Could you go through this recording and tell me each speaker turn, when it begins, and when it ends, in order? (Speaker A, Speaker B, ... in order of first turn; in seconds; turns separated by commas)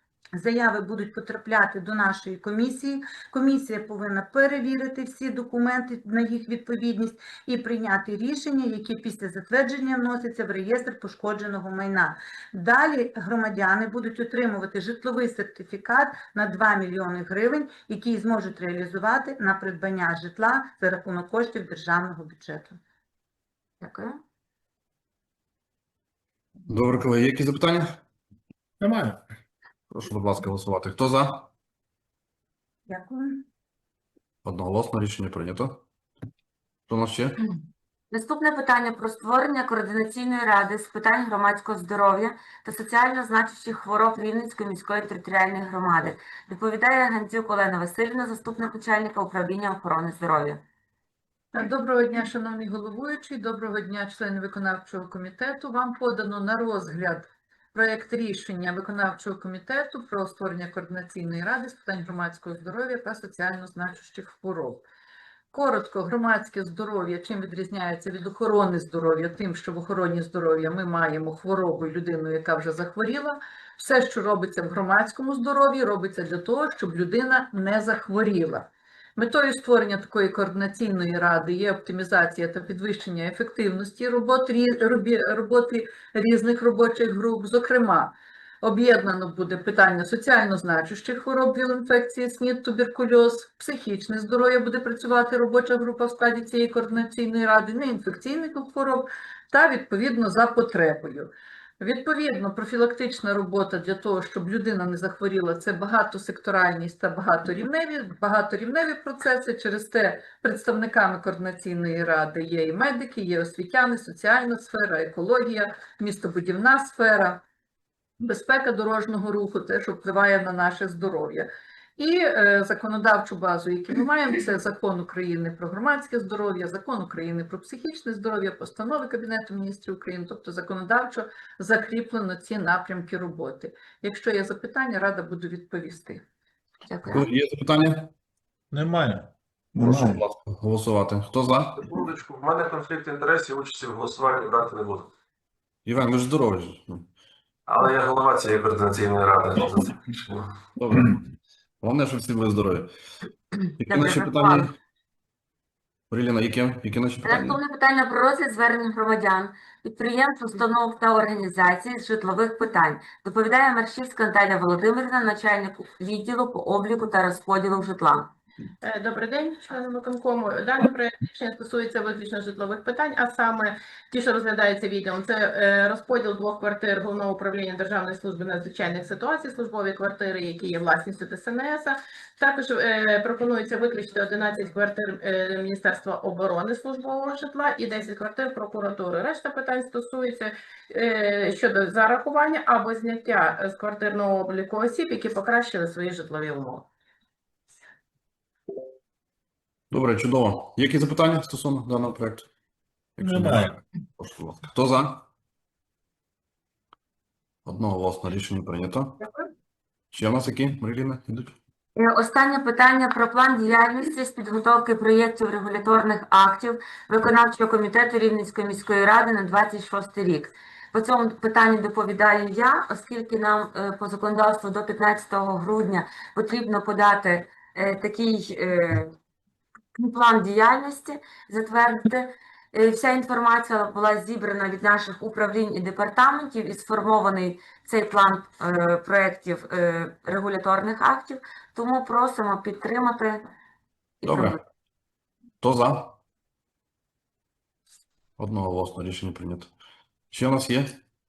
Speaker A: 0.3-22.8, Speaker B: 23.8-24.2, Speaker C: 26.7-27.9, Speaker D: 28.8-29.2, Speaker C: 29.9-31.5, Speaker A: 32.9-33.4, Speaker C: 34.4-35.8, Speaker C: 36.9-37.4, Speaker B: 38.1-50.6, Speaker E: 51.5-64.8, Speaker E: 65.5-117.4, Speaker E: 118.2-136.2, Speaker B: 136.9-137.3, Speaker C: 137.1-138.1, Speaker D: 138.7-140.2, Speaker C: 139.8-141.9, Speaker F: 141.8-145.1, Speaker C: 145.9-147.1, Speaker F: 147.7-150.5, Speaker C: 150.8-151.2, Speaker C: 151.8-152.9, Speaker C: 153.8-154.7, Speaker B: 153.9-154.7, Speaker C: 156.1-157.6, Speaker B: 157.2-168.3, Speaker G: 168.8-196.9, Speaker C: 199.9-202.5, Speaker C: 203.2-205.2, Speaker D: 203.2-203.8, Speaker C: 207.7-209.2, Speaker C: 210.1-211.6, Speaker B: 212.0-229.1, Speaker B: 230.0-243.5, Speaker B: 244.2-244.6, Speaker C: 244.2-244.6, Speaker C: 245.6-246.2, Speaker C: 248.4-249.7, Speaker C: 250.3-251.0